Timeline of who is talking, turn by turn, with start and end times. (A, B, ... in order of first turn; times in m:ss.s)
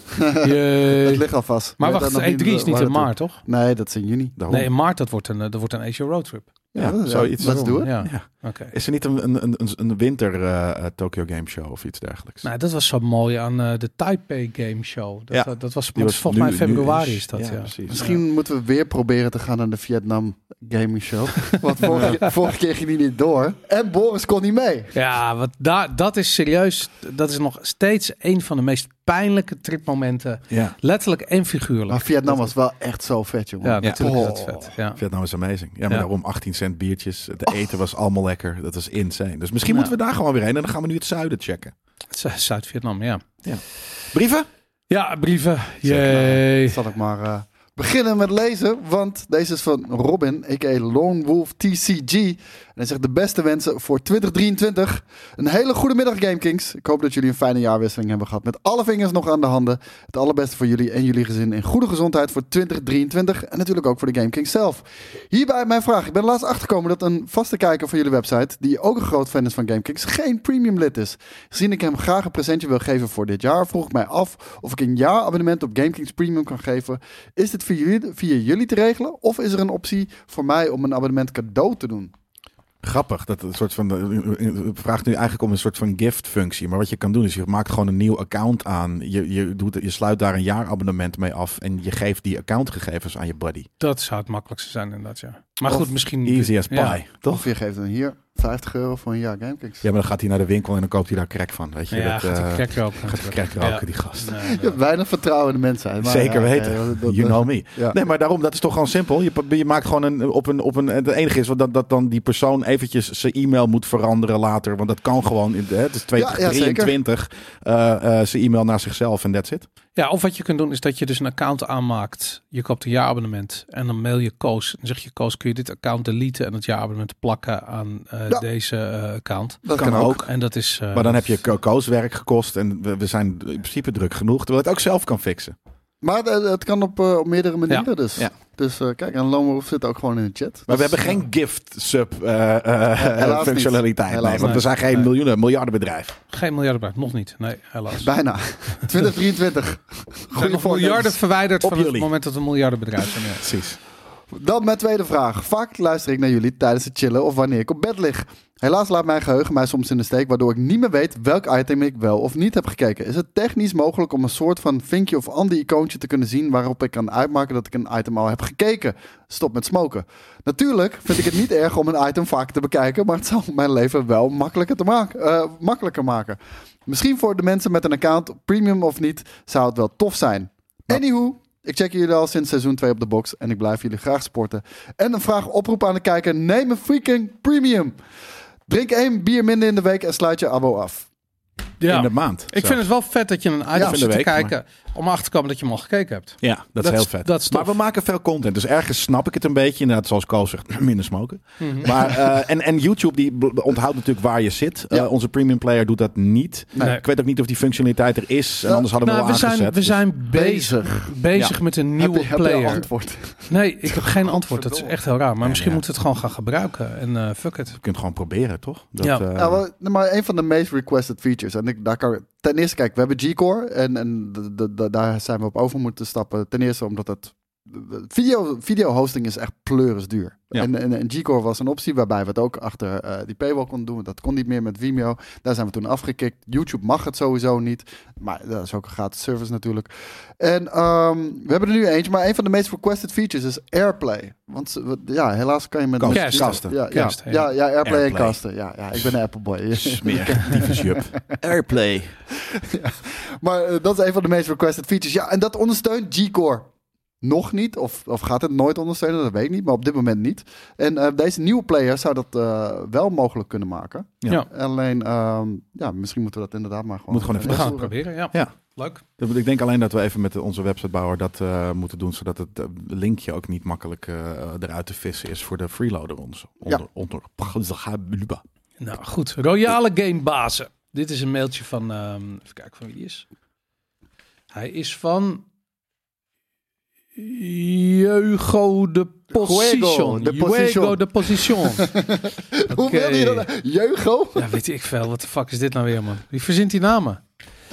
0:00.2-0:04.4 A
0:00.4-0:01.3 B
0:01.8-0:03.4 B
0:04.4-0:04.7 C
0:04.5-0:06.5 B
0:06.7-0:08.0 A
0:06.8-0:12.4 C
0:07.4-0:08.7 B
0:12.4-0:18.2 B
0:15.3-0:18.1 C
0:17.9-0:24.9 A
0:21.9-0:22.2 B
0:24.9-0:32.5 B
0:30.5-0:30.8 C
0:31.9-0:34.7 A
0:33.6-0:35.0 B
0:33.8-0:34.3 C
0:35.0-0:41.7 C
0:39.7-0:39.9 B
0:42.1-0:43.2 B
0:43.4-0:44.5 C
0:44.9-0:46.8 B
0:45.8-0:46.2 C
0:46.1-1:22.1 A
1:22.8-1:33.7 C
1:33.8-1:37.0 B
1:36.2-1:37.5 C
1:37.2-1:39.9 A
1:39.8-1:44.4 C
1:41.9-1:44.8 B
1:44.4-1:48.0 A
1:46.0-1:59.7 C
1:56.2-1:57.0 A
2:00.0-2:11.3 B
2:09.6-2:10.2 A
2:09.8-2:10.3 C
2:10.9-2:15.6 C
2:16.0-2:21.2 A
2:20.7-2:26.2 C
2:23.0-2:24.6 A
2:24.4-2:25.1 B
2:26.3-2:28.1 B
2:28.0-2:31.2 A
2:30.3-2:33.5 B
2:31.6-2:32.1 C
2:33.3-2:33.8 C
2:34.3-3:08.0 A
3:08.7-3:11.1 A
3:11.8-3:17.7 B
3:11.9-3:12.8 C
3:13.7-3:14.0 A
3:13.8-3:14.5 C
3:16.4-3:30.0 C
3:21.6-3:21.9 B
3:28.6-3:28.9 A
3:29.0-3:32.9 B
3:30.3-3:31.1 A
3:32.0-3:35.0 A
3:33.5-3:37.8 B
3:35.4-3:35.8 C
3:37.8-3:39.6 C
3:39.0-3:39.3 B
3:39.4-4:11.4 A
4:06.0-4:06.8 C
4:06.1-4:07.4 B
4:07.8-4:08.4 C
4:09.7-4:12.2 C
4:12.4-4:16.7 A
4:17.2-4:27.9 A
4:27.1-4:28.5 C
4:27.4-4:29.0 B
4:29.2-4:38.4 C
4:38.8-4:43.3 B
4:44.5-4:45.4 B
4:47.2-4:51.9 B
4:49.3-4:54.5 A
4:52.7-4:53.5 B
4:54.4-4:57.2 B